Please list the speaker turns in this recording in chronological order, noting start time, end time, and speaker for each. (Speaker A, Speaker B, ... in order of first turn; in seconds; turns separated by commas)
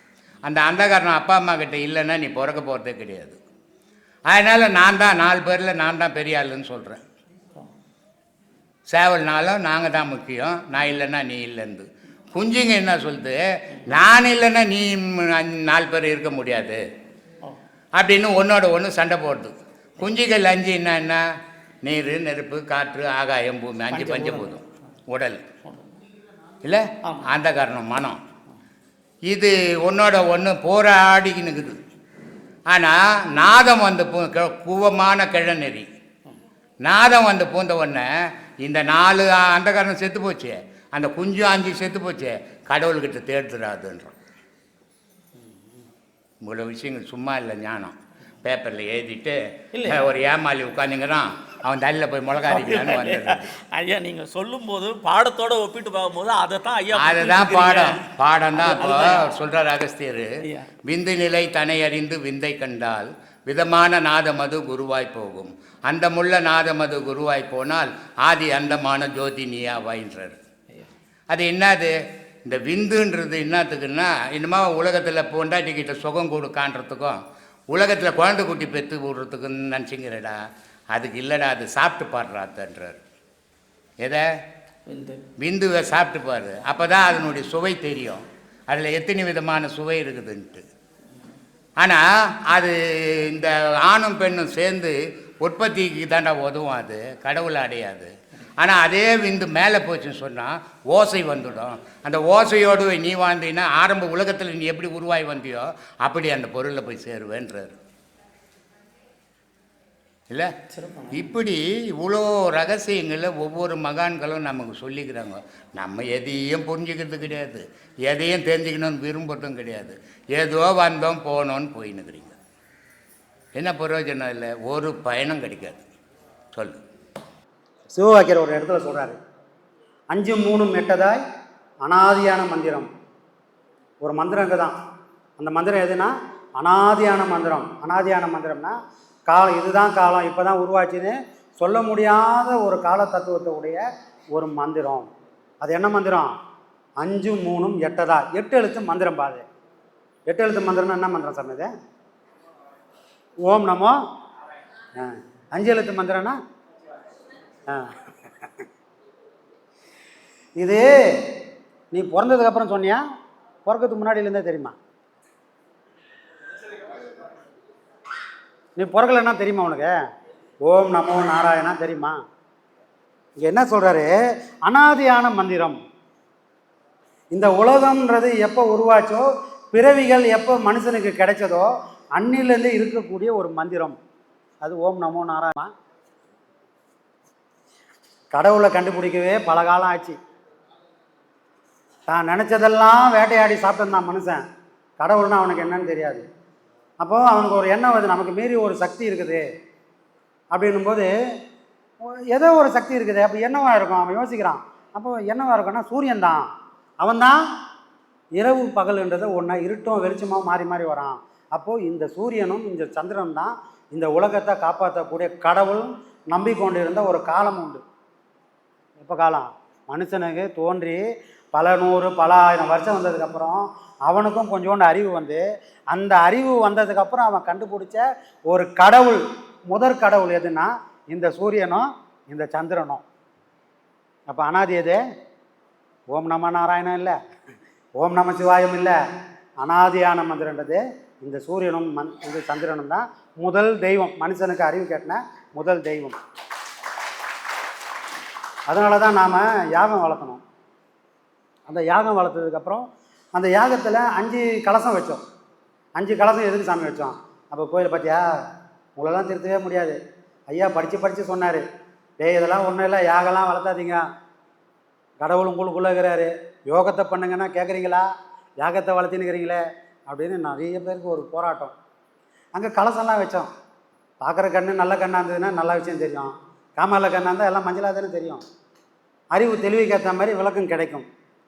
Speaker A: 0.5-3.4, Speaker A: 4.3-7.0, Speaker A: 8.9-16.8, Speaker A: 17.9-21.2, Speaker A: 21.8-25.4, Speaker B: 23.9-24.6, Speaker B: 25.6-26.0, Speaker A: 26.6-28.2, Speaker B: 27.1-27.3, Speaker A: 29.3-31.8, Speaker A: 32.7-35.9, Speaker A: 36.9-38.1, Speaker A: 38.6-44.1, Speaker B: 45.4-45.9, Speaker A: 46.4-53.5, Speaker B: 49.7-50.1, Speaker B: 52.4-58.0, Speaker A: 56.9-60.3, Speaker B: 58.5-59.3, Speaker A: 60.9-70.4, Speaker A: 71.3-71.9, Speaker A: 72.5-77.2, Speaker A: 77.7-80.4, Speaker A: 80.9-83.0, Speaker B: 84.9-85.2, Speaker A: 85.4-90.6, Speaker A: 91.8-107.8, Speaker B: 110.7-111.3, Speaker A: 111.1-122.4, Speaker A: 123.5-125.9, Speaker A: 126.5-126.8, Speaker C: 127.9-129.2, Speaker C: 130.1-131.2, Speaker C: 131.8-132.9, Speaker C: 134.0-134.7, Speaker C: 135.4-138.8, Speaker C: 139.3-143.8, Speaker C: 144.3-145.1, Speaker C: 145.6-146.3, Speaker C: 147.0-149.4, Speaker C: 150.3-151.7, Speaker C: 153.4-153.9, Speaker C: 155.0-156.4, Speaker C: 160.6-160.9, Speaker C: 161.9-163.0, Speaker C: 163.6-164.8, Speaker C: 168.8-169.9, Speaker C: 170.7-172.2, Speaker C: 173.4-174.1, Speaker C: 174.6-175.8, Speaker C: 177.3-183.9, Speaker C: 184.6-185.7, Speaker C: 188.3-190.2, Speaker C: 192.1-194.4, Speaker C: 195.0-196.2, Speaker C: 197.0-199.4, Speaker C: 200.5-201.1, Speaker C: 202.1-206.4, Speaker C: 207.0-207.4, Speaker C: 208.4-217.8, Speaker C: 219.0-221.0, Speaker C: 221.5-233.0, Speaker C: 234.3-235.0, Speaker C: 236.1-237.2, Speaker C: 238.0-239.0, Speaker C: 239.6-246.2, Speaker C: 248.7-250.4, Speaker C: 251.7-252.8, Speaker C: 253.3-255.2, Speaker C: 256.0-258.3, Speaker C: 259.0-260.0, Speaker C: 260.5-261.6, Speaker C: 262.2-264.0, Speaker C: 265.2-268.1, Speaker C: 268.6-271.7, Speaker C: 272.6-273.5, Speaker C: 274.2-278.4, Speaker C: 279.3-281.1